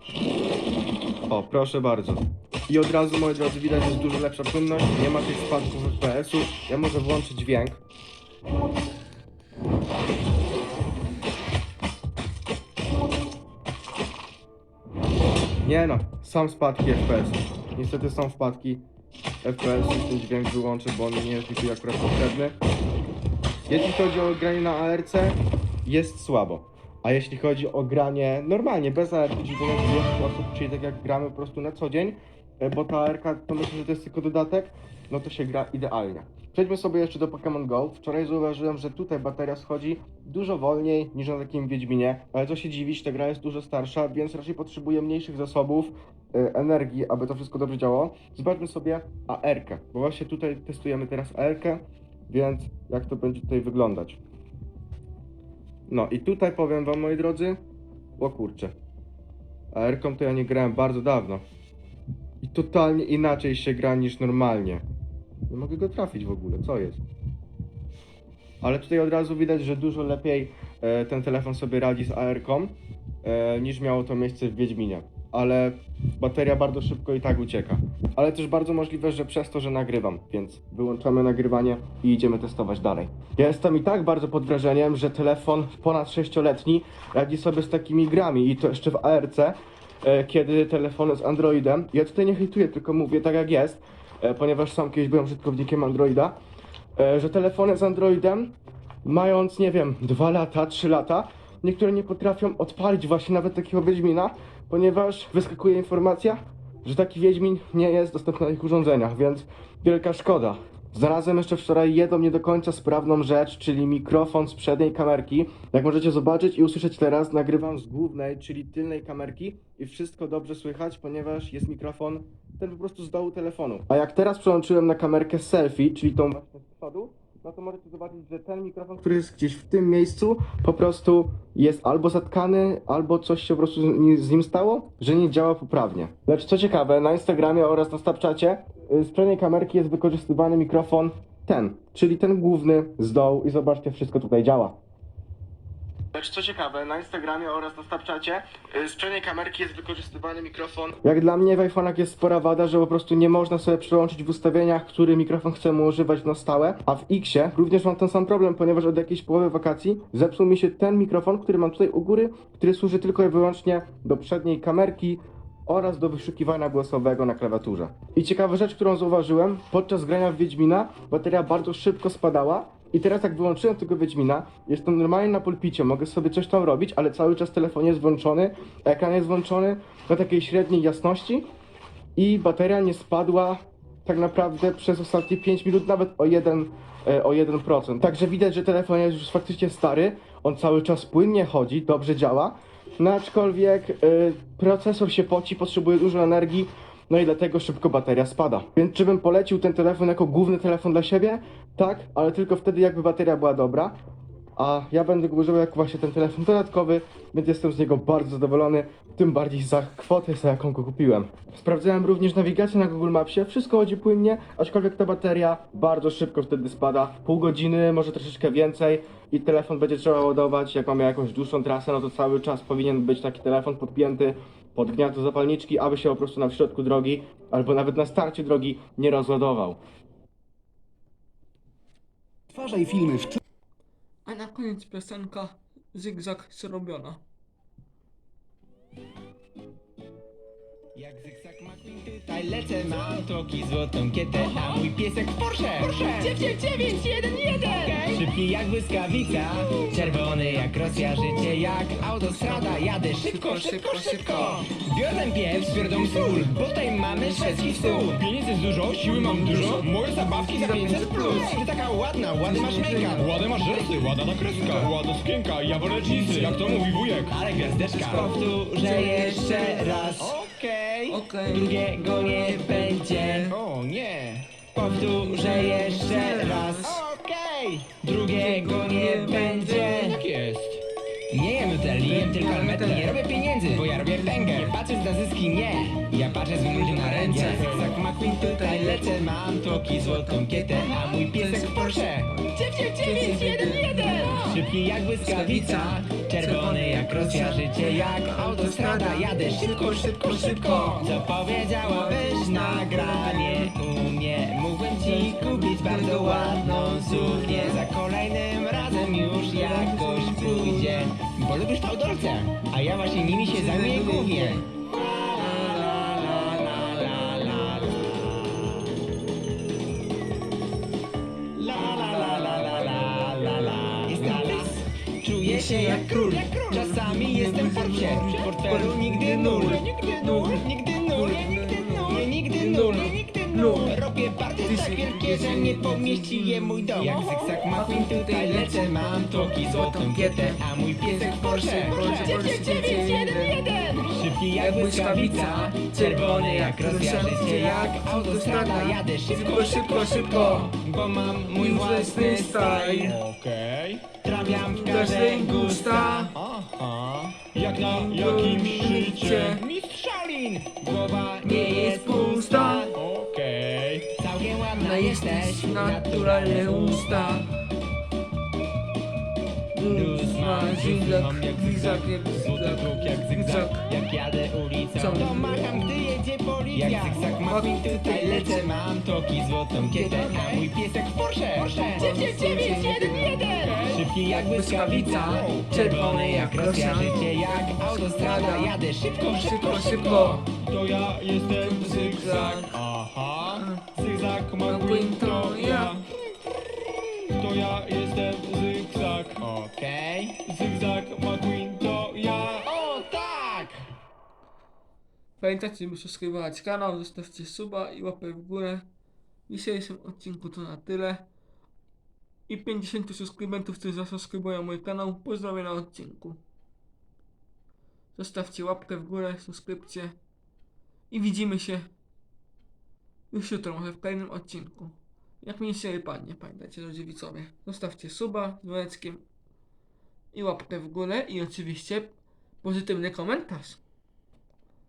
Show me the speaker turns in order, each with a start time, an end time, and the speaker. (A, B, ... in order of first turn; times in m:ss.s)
0:01.3-0:07.8 A
0:15.6-0:18.8 A
0:19.4-0:22.6 A
0:23.7-0:54.2 A
0:55.9-0:57.6 A
0:58.2-0:58.7 A
0:59.7-1:01.4 A
1:02.4-1:04.8 A
1:05.5-1:07.0 A
1:08.6-1:36.4 A
1:37.0-1:38.5 A
1:39.0-2:24.8 A
2:26.1-3:01.5 A
3:02.2-3:24.0 A
3:24.6-3:49.8 A
3:54.3-3:57.2 B
4:00.9-4:18.2 C
4:05.8-4:07.2 B
4:07.8-4:08.2 B
4:09.6-4:14.7 B
4:15.6-4:18.3 B
4:18.1-4:20.2 D
4:18.9-4:21.6 B
4:19.4-4:24.8 C
4:22.4-4:23.6 B
4:23.2-4:27.3 D
4:24.4-4:25.0 B
4:26.0-5:18.8 C
4:26.0-4:30.4 B
4:31.1-4:33.6 B
4:34.9-4:37.0 B
4:38.3-4:40.2 B
4:41.8-4:44.8 B
4:46.2-4:54.6 B
4:47.3-4:47.9 D
4:55.2-5:03.8 B
5:05.0-5:07.8 B
5:09.0-5:11.2 B
5:13.2-5:14.8 B
5:15.3-5:18.0 B
5:21.5-5:53.2 C
5:21.7-5:24.8 B
5:25.4-5:34.1 B
5:34.6-5:43.8 B
5:44.5-5:50.8 B
5:51.6-5:53.2 B
5:53.0-5:54.2 D
5:54.2-5:57.4 C
5:54.4-5:56.4 B
5:56.9-5:59.5 D
5:57.8-5:59.6 B
5:59.4-6:03.0 C
6:01.4-6:02.9 B
6:03.0-6:04.1 D
6:04.1-6:07.4 C
6:04.7-6:07.5 B
6:09.7-6:13.9 B
6:09.9-6:30.6 C
6:15.0-6:16.2 B
6:16.8-6:18.7 B
6:19.8-6:20.7 B
6:21.8-6:30.5 B
6:30.6-6:32.8 D
6:31.5-6:32.8 B
6:32.8-6:34.6 C
6:33.5-6:33.9 B
6:34.0-6:36.0 D
6:34.7-6:36.0 B
6:37.3-6:39.4 D
6:39.4-6:40.4 C
6:40.4-6:42.7 D
6:42.6-6:43.8 C
6:45.4-6:48.9 B
6:49.5-6:51.3 B
6:52.5-6:56.4 B
6:58.2-7:00.2 B
7:01.1-7:01.9 B
7:03.3-7:09.2 B
7:10.3-7:13.8 B